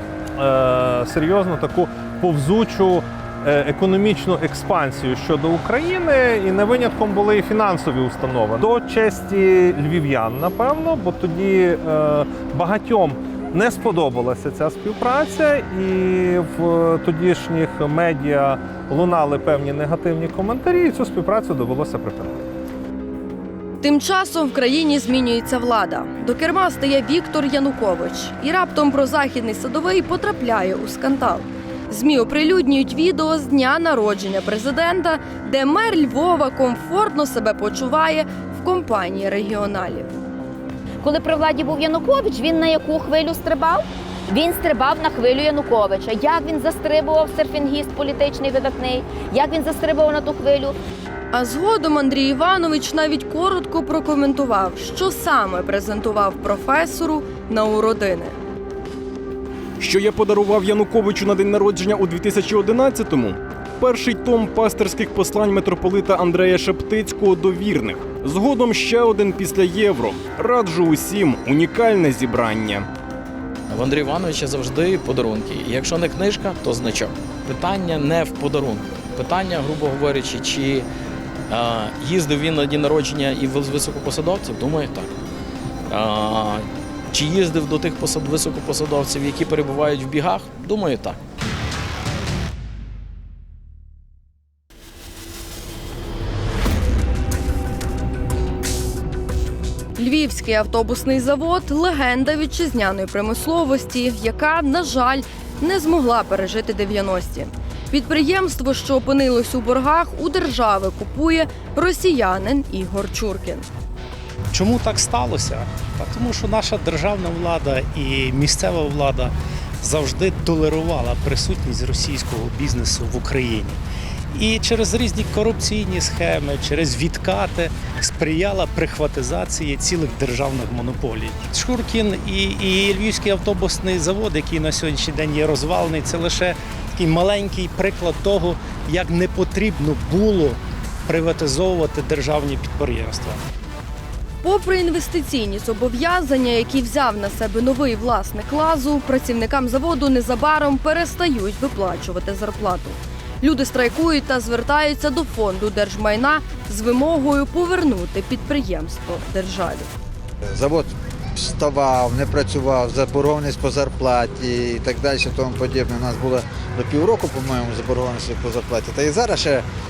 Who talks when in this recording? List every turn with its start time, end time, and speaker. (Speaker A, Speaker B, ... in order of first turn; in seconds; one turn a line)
Speaker A: 0.4-22.4
Speaker B: 23.8-40.1
Speaker C: 41.0-50.8
Speaker B: 51.3-58.4
Speaker D: 59.8-72.9
Speaker E: 73.7-80.9
Speaker E: 81.5-85.1
Speaker E: 85.9-91.2
Speaker B: 100.0-113.7
Speaker F: 114.5-123.8
Speaker F: 124.3-143.4
Speaker B: 144.4-159.9
Speaker G: 160.5-169.7